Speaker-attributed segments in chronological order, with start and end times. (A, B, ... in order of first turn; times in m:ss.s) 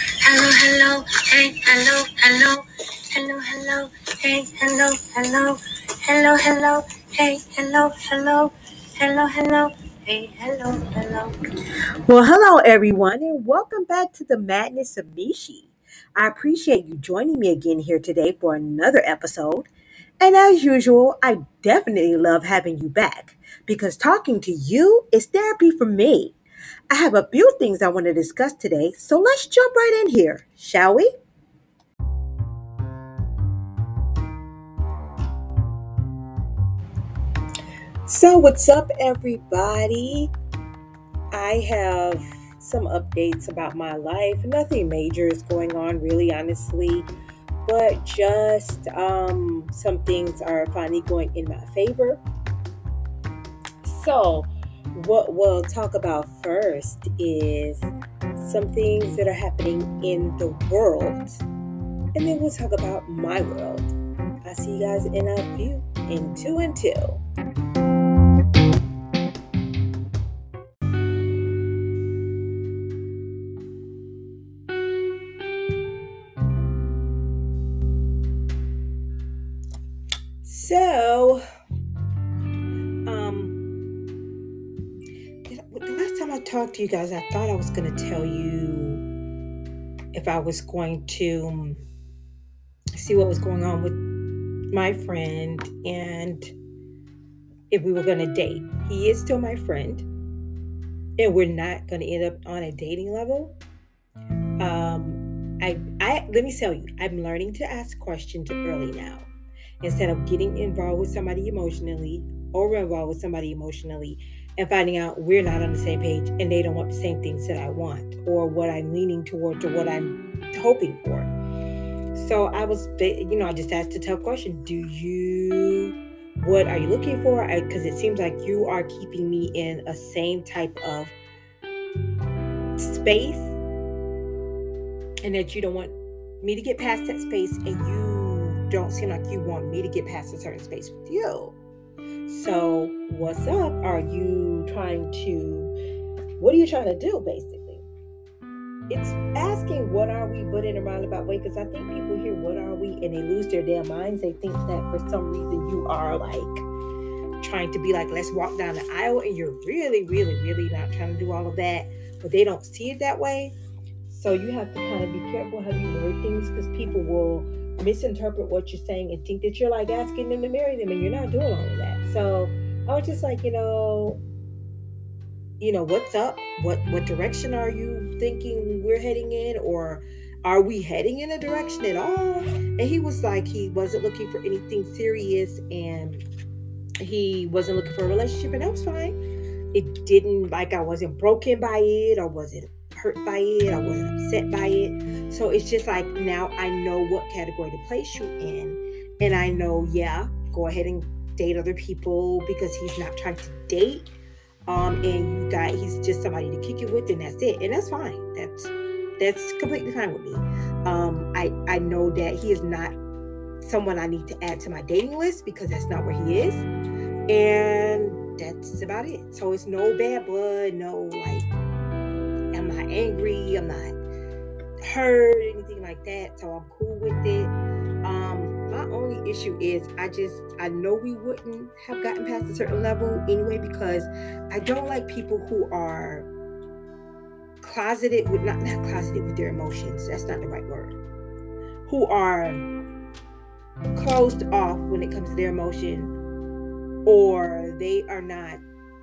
0:00.2-0:11.3 A
0:12.1-0:19.7 A
0:20.2-0:26.4 A
0:26.9-0:31.1 A
0:38.1-0:40.3 A
0:41.3-0:47.1 A
0:47.6-0:52.2 A
0:53.8-1:01.4 A
1:02.1-1:03.9 A
1:04.4-1:07.2 A
1:20.4-1:21.4 A
1:23.0-1:23.6 A
1:25.4-1:29.0 A
1:30.1-1:31.8 A
1:33.0-1:34.0 A
1:34.7-1:36.5 A
1:37.7-1:40.0 A
1:41.2-1:43.5 A
1:44.6-1:49.3 A
1:49.8-2:01.3 A
2:02.1-2:11.1 A
2:12.8-2:13.5 A
2:15.2-2:21.6 A
2:22.2-2:25.7 A
2:26.4-2:27.8 A
2:28.9-2:36.6 A
2:37.4-2:43.5 A
2:44.1-2:54.2 A
2:55.6-3:06.2 A
3:07.0-3:09.1 A
3:09.7-3:24.1 A
3:24.7-3:33.0 A
3:33.6-3:36.7 A
3:37.3-3:41.5 A
3:42.5-3:43.9 A
3:44.8-3:47.5 A
3:48.0-3:56.3 A
3:57.6-4:01.0 A
4:01.8-4:02.6 A
4:03.9-4:06.1 A
4:07.0-4:08.6 A